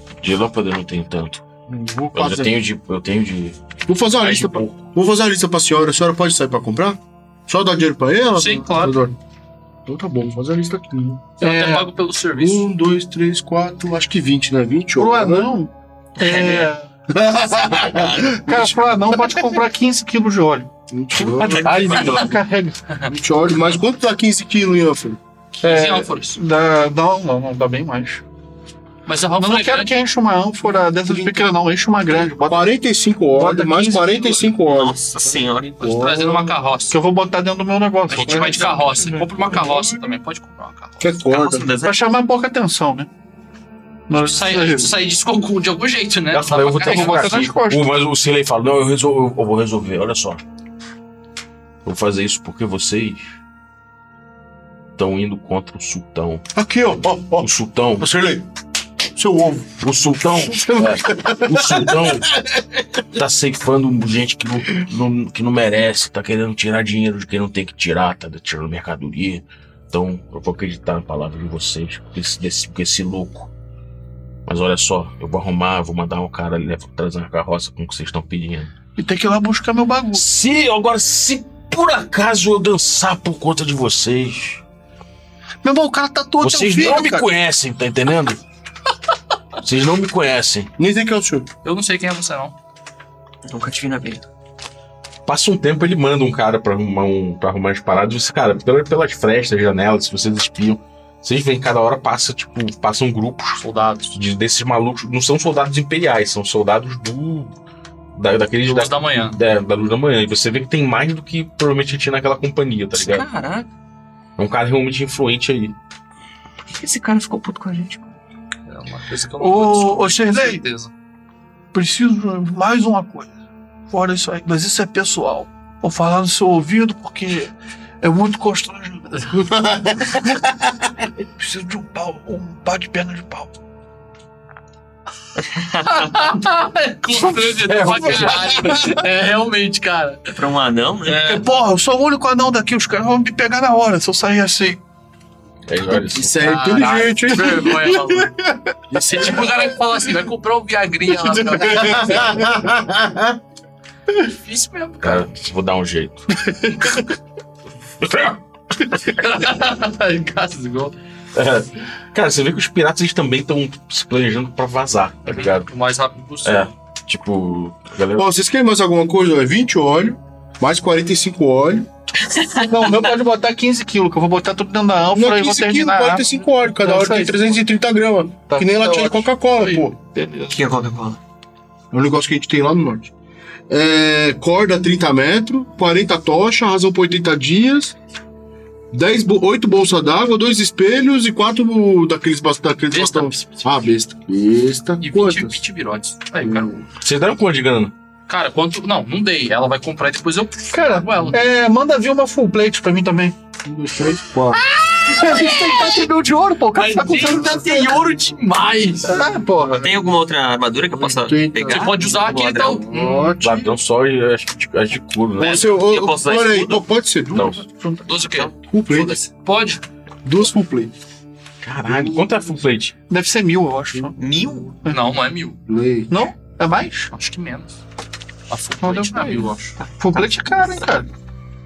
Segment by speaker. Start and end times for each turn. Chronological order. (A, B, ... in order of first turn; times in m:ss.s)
0:00.2-0:01.4 A
0:01.7-0:02.6 B
0:02.1-0:03.6 A
0:03.9-0:09.2 B
0:04.2-0:04.7 C
0:08.4-0:09.0 C
0:09.9-0:11.2 B
0:11.4-0:12.7 C
0:11.4-0:11.9 D
0:12.4-0:15.5 B
0:15.0-0:16.9 D
0:16.2-0:16.7 E
0:17.1-0:19.4 B
0:17.7-0:20.7 D
0:17.9-0:18.3 E
0:20.9-0:22.3 B
0:21.2-0:22.2 E
0:21.6-0:22.2 A
0:21.6-0:22.8 D
0:23.0-0:25.2 B
0:25.6-0:26.4 C
0:25.6-0:28.2 D
0:29.1-0:29.9 C
0:29.4-0:32.8 D
0:30.8-0:31.6 B
0:32.1-0:35.0 B
0:33.3-0:34.5 D
0:34.6-0:35.9 E
0:35.8-0:36.5 B
0:35.8-0:37.0 C
0:36.9-0:39.0 D
0:38.1-0:41.1 C
0:38.1-0:40.0 B
0:41.0-0:41.7 B
0:41.3-0:42.0 E
0:41.8-0:43.1 D
0:44.1-0:44.9 D
0:44.1-0:47.5 C
0:46.3-0:50.4 A
0:46.9-0:47.8 D
0:51.8-0:53.4 A
0:55.0-0:56.4 A
0:56.6-0:58.5 B
0:57.4-0:58.1 A
0:59.1-0:59.8 B
0:59.8-1:02.4 A
1:00.5-1:02.6 B
1:03.1-1:13.5 A
1:14.4-1:18.7 A
1:19.0-1:20.2 D
1:20.1-1:24.6 A
1:25.6-1:27.3 D
1:26.4-1:28.4 A
1:29.6-1:30.7 A
1:30.8-1:31.5 B
1:31.6-1:32.6 C
1:33.4-1:34.2 E
1:35.2-1:47.5 A
1:43.6-1:44.2 C
1:48.1-1:53.3 A
1:48.6-1:49.4 C
1:52.9-1:53.7 E
1:54.4-1:55.7 A
1:56.7-1:58.1 E
1:58.7-2:00.9 C
1:59.4-2:00.6 D
2:01.7-2:03.3 D
2:03.9-2:10.3 D
2:09.4-2:10.2 B
2:11.4-2:13.5 D
2:15.5-2:15.9 E
2:15.8-2:20.4 C
2:17.7-2:18.5 A
2:17.7-2:18.6 D
2:20.4-2:21.4 E
2:21.1-2:24.8 D
2:21.1-2:21.4 C
2:25.7-2:26.6 A
2:25.9-2:29.7 B
2:26.4-2:28.3 C
2:28.9-2:32.4 C
2:31.3-2:33.4 B
2:34.2-2:35.3 C
2:35.0-2:36.3 A
2:38.0-2:38.4 A
2:38.9-2:40.9 C
2:41.4-2:45.7 A
2:45.2-2:46.7 C
2:46.4-2:48.3 A
2:48.2-2:51.9 B
2:52.2-2:53.0 E
2:52.5-2:57.6 D
2:55.1-2:59.9 B
2:58.5-3:00.6 D
3:00.5-3:01.2 E
3:01.9-3:03.1 B
3:03.7-3:07.9 B
3:08.9-3:15.6 B
3:12.9-3:13.8 C
3:15.0-3:16.8 C
3:16.4-3:16.8 B
3:17.0-3:17.9 A
3:18.3-3:21.4 C
3:20.7-3:23.4 D
3:23.6-3:24.6 B
3:24.9-3:26.0 C
3:25.0-3:27.8 D
3:26.7-3:29.2 C
3:27.1-3:28.0 B
3:29.1-3:30.0 D
3:29.8-3:32.9 E
3:31.0-3:33.7 B
3:31.7-3:33.3 C
3:33.4-3:35.6 A
3:35.4-3:36.9 E
3:35.4-3:37.6 B
3:37.3-3:37.6 A
3:37.4-3:38.2 D
3:38.0-3:39.8 C
3:38.2-3:39.2 E
3:38.7-3:39.2 B
3:40.2-3:40.9 B
3:41.6-3:43.0 A
3:41.9-3:42.2 B
3:43.1-3:44.2 D
3:44.2-3:44.7 E
3:44.9-3:45.6 C
3:45.7-3:46.3 B
3:46.1-3:47.1 D
3:47.1-3:47.7 C
3:48.5-3:49.8 C
3:48.8-3:51.1 D